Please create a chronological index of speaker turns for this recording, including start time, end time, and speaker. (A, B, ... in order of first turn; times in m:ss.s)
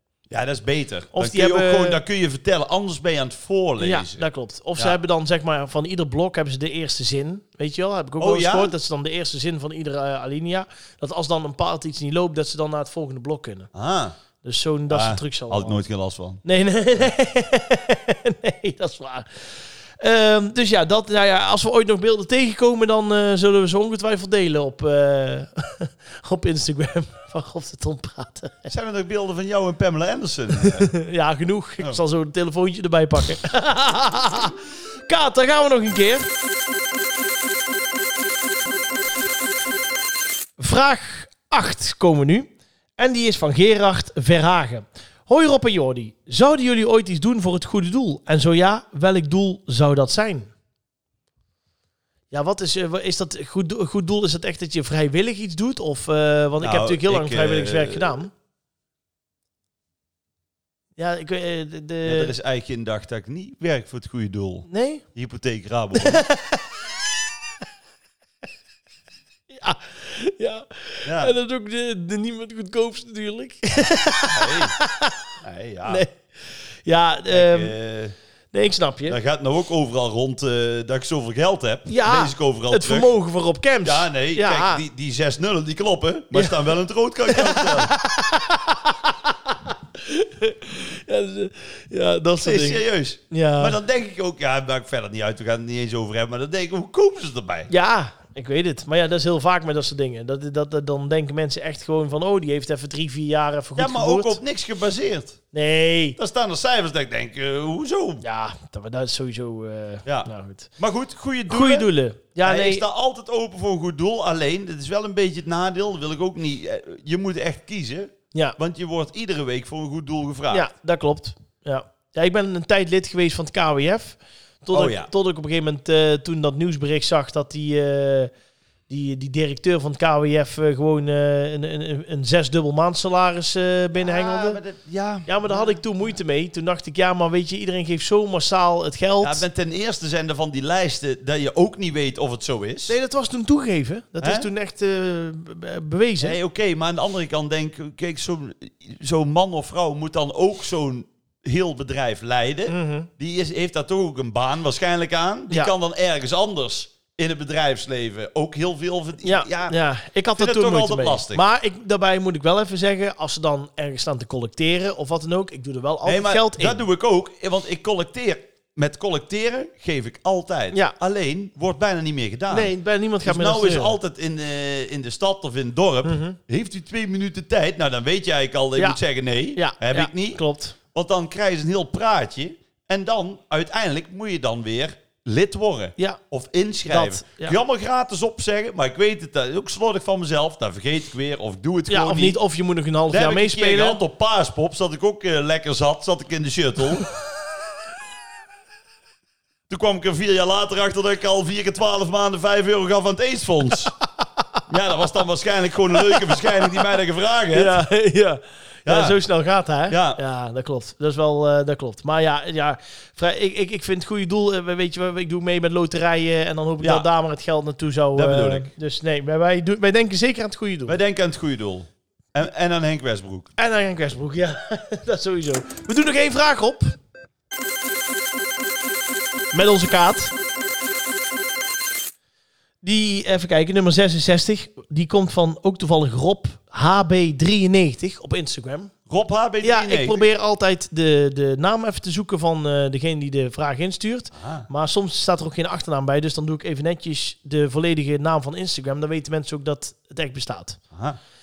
0:00.3-0:05.0 A
0:01.1-0:02.0 B
0:03.8-0:13.7 B
0:08.2-0:08.7 A
0:13.7-0:14.1 A
0:14.4-0:15.8 B
0:14.9-0:16.4 A
0:16.4-0:28.7 B
0:28.7-0:30.9 A
0:30.6-0:36.3 B
0:40.6-0:50.5 B
0:52.3-0:58.3 B
0:56.6-0:58.2 A
1:01.0-1:02.3 B
1:02.0-1:06.2 A
1:04.7-1:05.0 B
1:05.9-1:06.7 B
1:09.5-1:15.2 B
1:11.0-1:11.3 A
1:14.3-1:14.8 A
1:15.4-1:16.0 A
1:15.8-1:17.7 B
1:17.3-1:18.1 A
1:18.5-1:19.2 B
1:19.1-1:23.1 A
1:21.9-1:24.8 B
1:23.8-1:27.9 A
1:26.3-1:26.7 B
1:27.3-1:33.8 B
1:32.4-1:37.7 A
1:37.7-1:44.4 B
1:43.8-1:45.4 A
1:45.5-1:46.2 B
1:46.2-1:48.2 A
1:48.2-1:50.7 B
1:50.0-1:51.9 A
1:51.5-1:52.8 B
1:52.4-2:00.7 A
2:00.5-2:08.3 B
2:04.7-2:05.1 A
2:08.9-2:14.6 B
2:13.9-2:15.8 A
2:15.2-2:19.4 B
2:19.2-2:22.9 A
2:22.9-2:26.4 B
2:24.2-2:24.5 A
2:26.2-2:39.8 A
2:32.7-2:33.1 B
2:39.2-2:46.8 B
2:40.3-2:41.4 A
2:46.0-3:00.4 A
2:52.5-2:54.0 B
2:56.0-2:56.4 B
2:59.5-3:00.8 B
3:00.9-3:12.4 A
3:06.9-3:07.6 B
3:11.9-3:14.0 B
3:13.1-3:17.1 A
3:19.7-3:23.9 A
3:24.7-3:27.8 A
3:25.9-3:26.8 B
3:27.5-3:41.0 B
3:28.8-3:29.2 A
3:29.9-3:30.2 A
3:36.8-3:37.1 A
3:38.1-3:38.7 A
3:40.9-3:43.5 A
3:43.6-3:47.0 B
3:49.5-3:50.3 B
3:52.8-3:58.9 B
3:59.1-4:00.3 A
3:59.6-4:10.8 B
4:04.3-4:04.7 A
4:10.9-4:11.2 A